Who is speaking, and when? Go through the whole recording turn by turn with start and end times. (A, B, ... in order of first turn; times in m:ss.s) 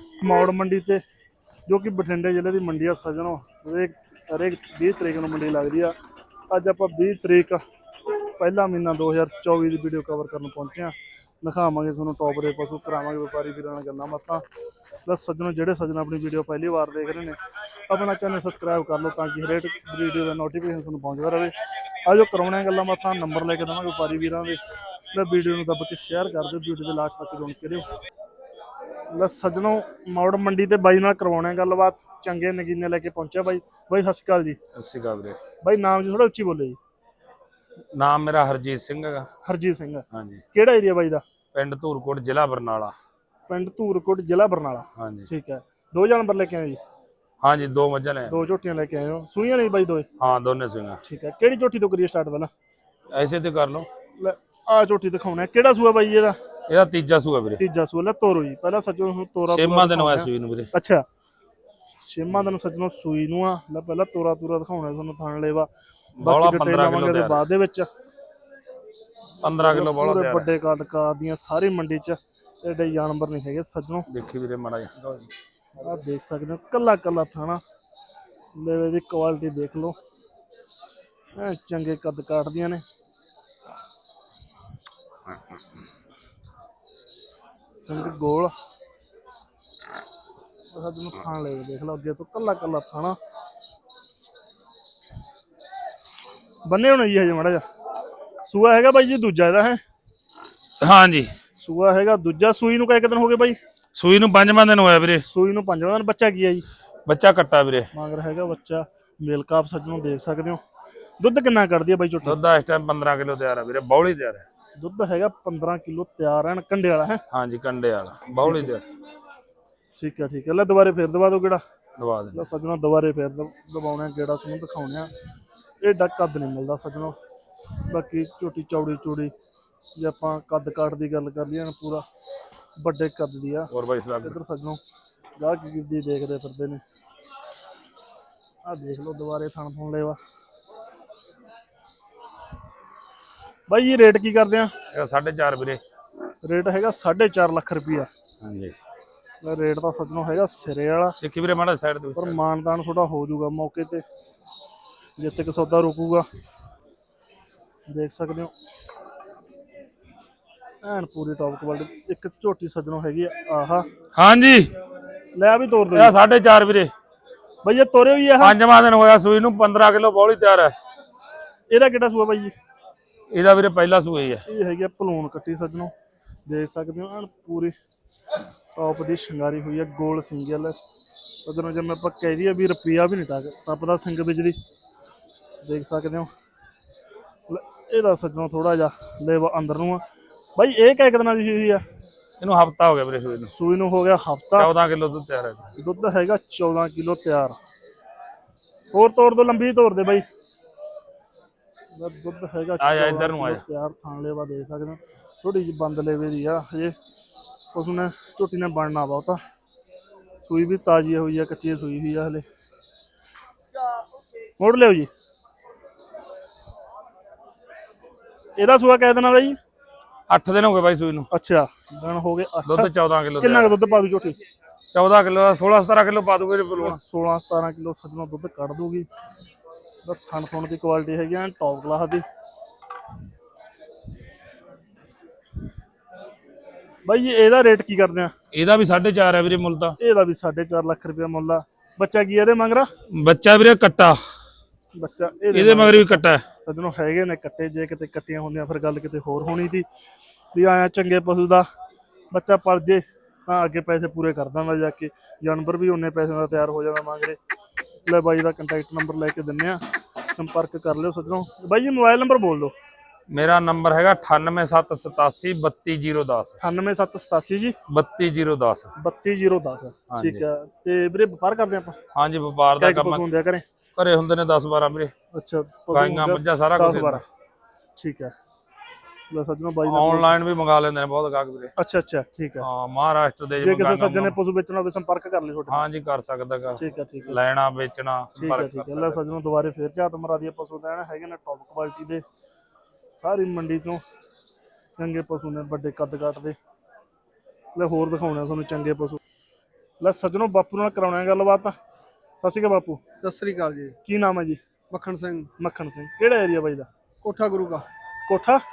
0:00.2-0:01.0 A
0:01.7-0:05.9 A
0:06.5-0:07.6 A
0:08.4-0:14.4 A
0:15.0-0:17.4 A
0:17.9-0:21.5 A
0:22.0-0:24.6 A
0:25.1-0:27.8 A
0:29.1-0:34.6 A
0:34.7-0:35.4 B
0:35.6-0:36.8 A
0:37.9-0:39.3 B
0:39.4-0:41.2 A
0:40.1-0:40.4 B
0:41.5-0:42.9 B
0:43.5-0:46.8 A
0:45.0-0:45.3 B
0:47.4-0:48.3 B
0:48.3-0:50.0 A
0:50.2-0:51.0 B
0:51.0-0:52.5 A
0:53.1-0:53.9 B
0:54.2-0:56.4 A
0:56.7-0:57.6 B
0:57.6-1:01.0 A
0:59.5-1:00.7 B
1:02.0-1:05.7 A
1:06.2-1:07.4 B
1:06.2-1:07.9 A
1:09.4-1:10.5 B
1:09.6-1:14.1 A
1:14.1-1:15.3 B
1:15.8-1:17.6 A
1:18.6-1:20.0 A
1:21.3-1:22.8 A
1:27.8-1:28.5 A
1:30.7-1:33.2 A
1:36.7-1:37.6 A
1:38.4-1:39.8 A
1:40.8-1:41.3 B
1:41.6-1:43.6 A
1:43.9-1:45.2 B
1:45.3-1:46.6 A
1:47.0-1:47.9 B
1:47.9-1:50.6 A
1:51.2-1:52.4 A
1:52.2-1:54.4 B
1:54.8-1:57.2 A
1:57.3-1:58.8 B
1:58.4-1:58.7 A
2:00.0-2:01.6 A
2:02.0-2:02.4 B
2:02.3-2:05.1 A
2:05.8-2:07.2 A
2:07.9-2:09.3 A
2:10.0-2:12.0 A
2:12.8-2:13.7 A
2:13.7-2:14.4 B
2:14.2-2:14.8 A
2:15.4-2:16.8 A
2:18.6-2:20.2 A
2:23.7-2:24.7 A
2:24.9-2:25.8 B
2:26.4-2:28.1 A
2:28.4-2:28.7 B
2:29.4-2:31.2 A
2:31.2-2:32.4 B
2:32.2-2:34.0 A
2:35.2-2:36.2 A
2:37.9-2:38.5 A
2:40.8-2:43.8 A
2:44.2-2:44.7 B
2:45.3-2:46.2 A
2:45.9-2:46.9 B
2:47.6-2:48.6 A
2:48.4-2:50.8 B
2:51.7-2:52.5 A
2:53.3-2:54.4 B
2:54.5-2:55.9 A
2:56.5-2:57.7 A
2:58.8-3:00.8 A
3:01.4-3:04.6 A
3:05.6-3:06.3 A
3:07.5-3:10.0 A
3:10.6-3:11.8 A
3:12.4-3:13.5 B
3:13.5-3:14.7 A
3:14.5-3:15.7 B
3:15.8-3:17.6 A
3:18.9-3:20.2 A
3:21.9-3:26.9 A
3:22.8-3:23.6 B
3:27.7-3:29.4 A
3:30.4-3:32.4 A
3:34.6-3:35.1 A
3:38.6-3:39.6 A
3:40.3-3:41.3 B
3:41.3-3:44.4 A
3:42.7-3:43.8 B
3:44.9-3:47.0 B
3:46.8-3:49.1 A
3:50.0-3:52.2 A
3:57.1-3:58.3 A
3:58.5-4:00.0 B
4:00.0-4:02.9 A
4:03.1-4:04.2 B
4:04.9-4:09.8 A
4:05.5-4:06.4 B
4:10.5-4:11.7 A
4:12.3-4:17.4 A
4:18.1-4:22.7 A
4:23.3-4:26.6 B
4:26.6-4:27.8 A
4:27.9-4:28.9 B
4:29.0-4:32.0 A
4:30.1-4:30.4 B
4:32.2-4:33.2 B
4:32.8-4:33.6 A
4:34.0-4:35.1 B
4:35.3-4:37.2 A
4:35.9-4:37.2 B
4:38.0-4:38.3 A
4:39.3-4:40.3 A
4:39.8-4:41.7 B
4:41.8-4:42.7 A
4:42.6-4:44.4 B
4:43.6-4:45.8 A
4:45.7-4:49.2 B
4:46.8-4:47.4 A
4:48.4-4:52.2 A
4:53.2-4:54.0 A
4:55.0-4:56.6 A
4:57.8-4:59.2 A
5:00.0-5:01.8 A
5:02.4-5:03.0 A
5:03.2-5:03.9 C
5:04.1-5:04.6 A
5:04.9-5:05.5 C
5:05.6-5:06.9 A
5:07.2-5:07.9 C
5:08.3-5:08.6 A